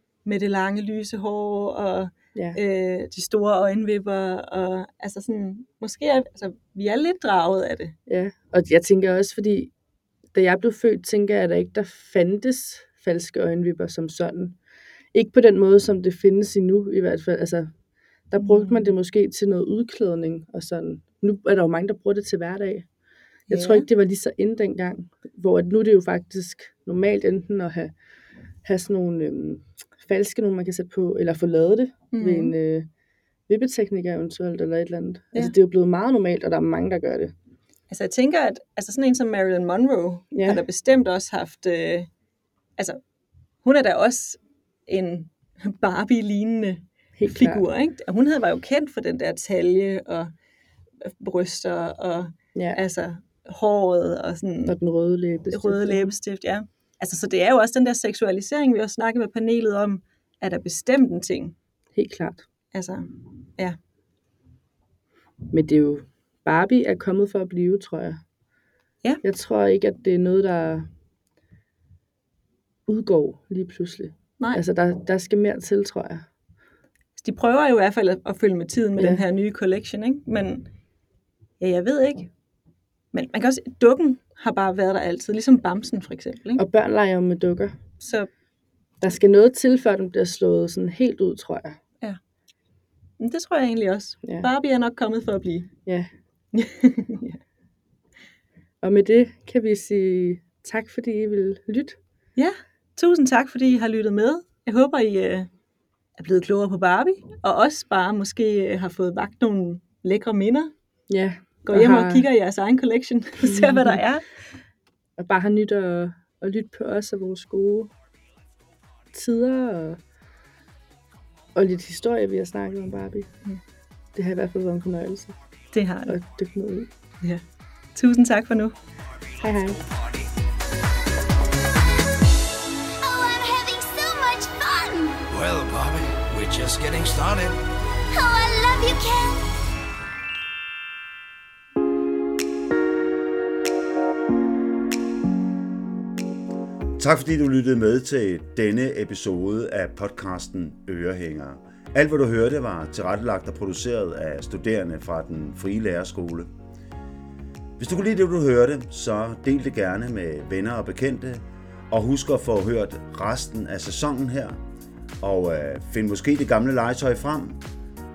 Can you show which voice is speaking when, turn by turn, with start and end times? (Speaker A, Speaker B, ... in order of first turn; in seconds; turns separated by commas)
Speaker A: 0.2-8.0, Speaker B: 8.1-9.7, Speaker B: 10.3-14.6, Speaker B: 15.1-22.9, Speaker A: 18.4-18.9, Speaker B: 23.4-27.9, Speaker A: 23.5-23.9, Speaker B: 28.6-32.9, Speaker A: 32.1-32.5, Speaker B: 33.5-37.4, Speaker A: 37.9-42.1, Speaker B: 40.3-40.6, Speaker A: 42.8-43.0, Speaker A: 43.6-50.3, Speaker B: 47.1-47.6, Speaker A: 51.0-54.8, Speaker B: 52.5-52.8, Speaker B: 54.6-56.1, Speaker A: 55.5-61.5, Speaker B: 61.9-62.5, Speaker A: 62.7-63.8, Speaker B: 65.5-68.2, Speaker B: 69.2-70.9, Speaker B: 72.9-76.3, Speaker A: 77.2-80.7, Speaker B: 79.0-79.2, Speaker A: 81.6-82.3, Speaker A: 83.1-86.6, Speaker B: 86.5-87.8, Speaker A: 88.0-88.3, Speaker B: 89.0-91.8, Speaker A: 93.2-95.7, Speaker B: 94.2-94.5, Speaker A: 96.5-97.4, Speaker B: 98.8-102.0, Speaker A: 102.3-105.5, Speaker A: 106.2-110.7, Speaker B: 111.1-112.3, Speaker A: 111.6-114.6, Speaker B: 113.4-114.0, Speaker B: 115.2-117.9, Speaker B: 119.1-120.0, Speaker B: 121.5-123.4, Speaker B: 124.1-125.3, Speaker A: 125.7-126.2, Speaker B: 126.1-126.9, Speaker A: 127.2-128.8, Speaker C: 129.3-130.3, Speaker B: 129.4-129.8, Speaker D: 133.0-135.2, Speaker C: 135.3-137.6, Speaker D: 138.1-139.5, Speaker E: 147.0-156.5, Speaker E: 157.8-164.6, Speaker E: 165.2-167.6